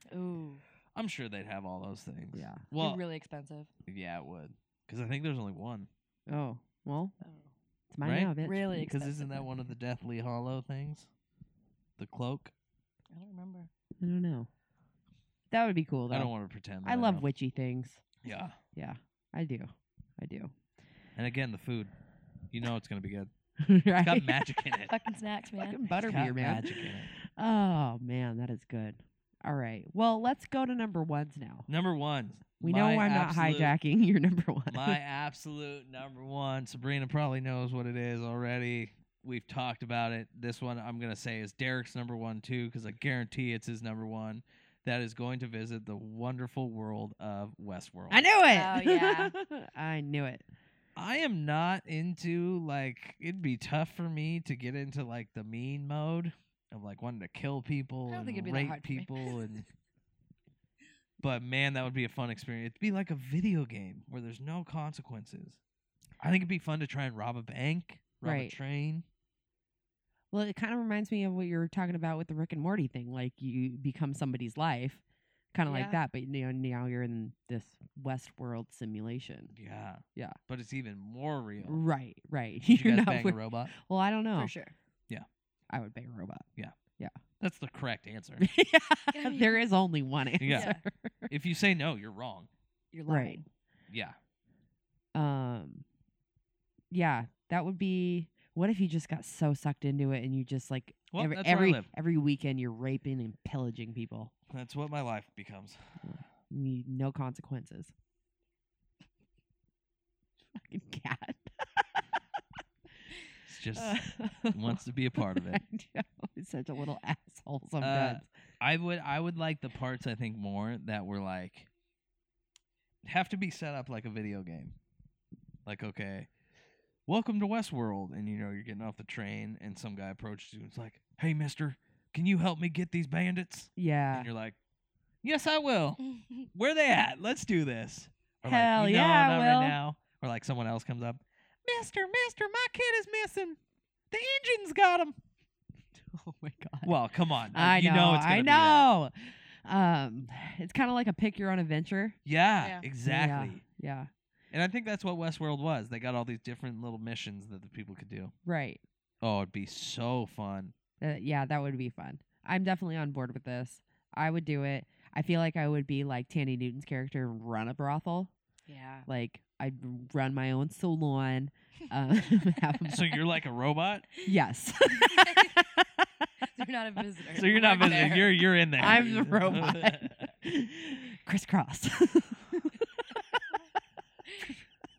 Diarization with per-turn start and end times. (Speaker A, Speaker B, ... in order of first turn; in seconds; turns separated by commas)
Speaker A: 0.1-0.6, Speaker B: 0.9-3.0, Speaker C: 2.3-2.6, Speaker A: 2.7-3.7, Speaker B: 3.9-5.9, Speaker C: 6.3-7.2, Speaker A: 7.2-7.5, Speaker C: 7.9-8.9, Speaker B: 8.0-11.1, Speaker A: 8.4-9.5, Speaker B: 12.0-12.5, Speaker A: 13.1-13.7, Speaker C: 14.0-14.5, Speaker C: 15.5-16.3, Speaker B: 16.1-17.3, Speaker C: 16.8-18.0, Speaker B: 18.2-18.6, Speaker C: 18.8-20.5, Speaker B: 21.2-21.9, Speaker B: 22.5-23.3, Speaker C: 23.6-24.3, Speaker B: 24.0-24.9, Speaker A: 24.9-25.8, Speaker C: 25.6-31.7, Speaker B: 26.0-27.1, Speaker B: 31.7-33.8, Speaker C: 32.6-35.0, Speaker B: 34.7-48.3, Speaker C: 48.1-50.4, Speaker A: 48.5-49.3, Speaker B: 51.0-59.7, Speaker A: 58.1-59.1, Speaker B: 61.2-65.6, Speaker B: 66.2-69.0, Speaker C: 68.2-68.6, Speaker C: 70.3-75.0, Speaker C: 75.5-79.5, Speaker A: 75.7-76.0, Speaker B: 79.5-81.8, Speaker C: 81.6-84.5, Speaker B: 82.7-83.7, Speaker A: 84.4-84.7, Speaker C: 85.7-86.5, Speaker B: 87.4-88.5, Speaker C: 88.4-91.3, Speaker A: 89.2-89.6, Speaker B: 90.4-92.5, Speaker A: 90.5-90.8, Speaker A: 92.9-93.4, Speaker C: 93.1-93.4, Speaker B: 93.9-94.2, Speaker C: 95.1-95.8, Speaker C: 96.9-104.3, Speaker B: 101.1-101.9, Speaker B: 104.5-105.8, Speaker C: 106.0-107.9, Speaker C: 110.5-112.0, Speaker B: 113.5-115.6, Speaker C: 113.8-118.2, Speaker B: 117.8-121.7, Speaker B: 123.0-124.8, Speaker B: 125.7-126.3, Speaker B: 127.1-134.6, Speaker C: 133.8-134.3, Speaker B: 135.2-136.0, Speaker B: 136.5-143.6, Speaker C: 138.4-139.8, Speaker B: 144.1-145.2, Speaker C: 146.0-147.0, Speaker B: 146.8-148.9, Speaker C: 147.5-152.2, Speaker B: 152.2-153.6, Speaker C: 153.0-154.1, Speaker B: 154.5-158.3, Speaker C: 158.4-158.8, Speaker B: 159.2-160.7, Speaker C: 161.0-168.3, Speaker A: 168.7-169.1, Speaker C: 169.1-173.2, Speaker B: 172.9-174.1, Speaker C: 174.2-176.1, Speaker A: 175.0-175.5, Speaker A: 176.4-178.4, Speaker B: 177.3-180.3, Speaker C: 178.8-183.6